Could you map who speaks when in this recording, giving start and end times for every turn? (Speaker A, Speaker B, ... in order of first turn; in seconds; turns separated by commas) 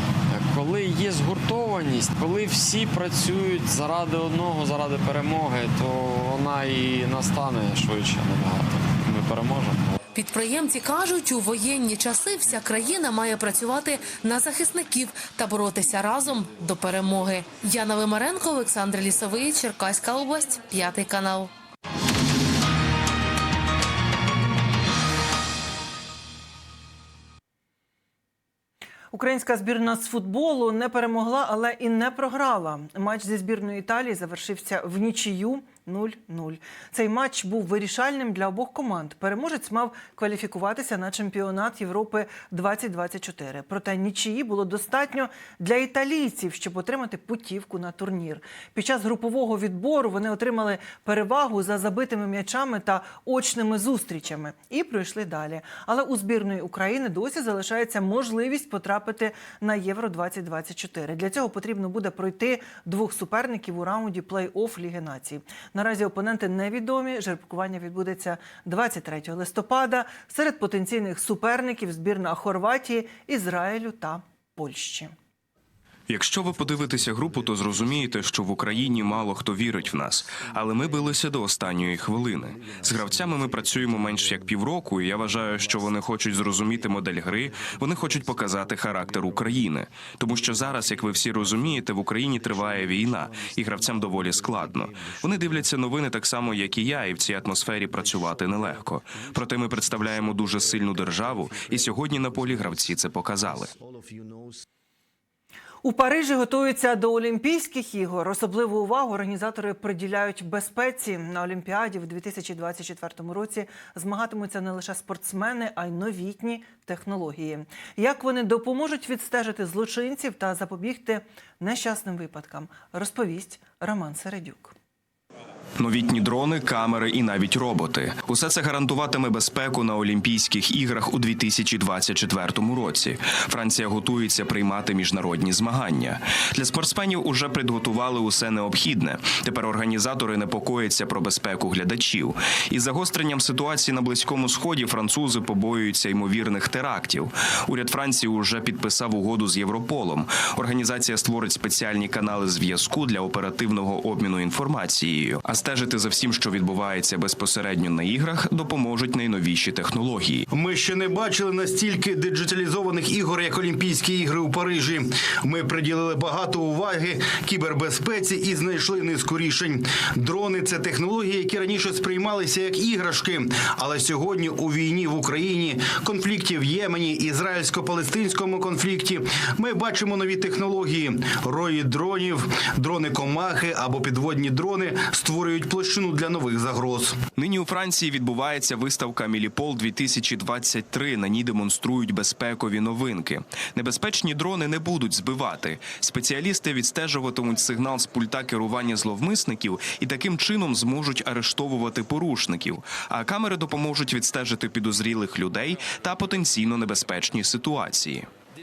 Speaker A: 0.3-10.0, Speaker B: 10.1-21.5, Speaker C: 29.1-75.1, Speaker D: 76.1-103.7, Speaker C: 105.8-124.7, Speaker D: 125.8-160.4, Speaker E: 160.5-187.2, Speaker D: 187.3-208.2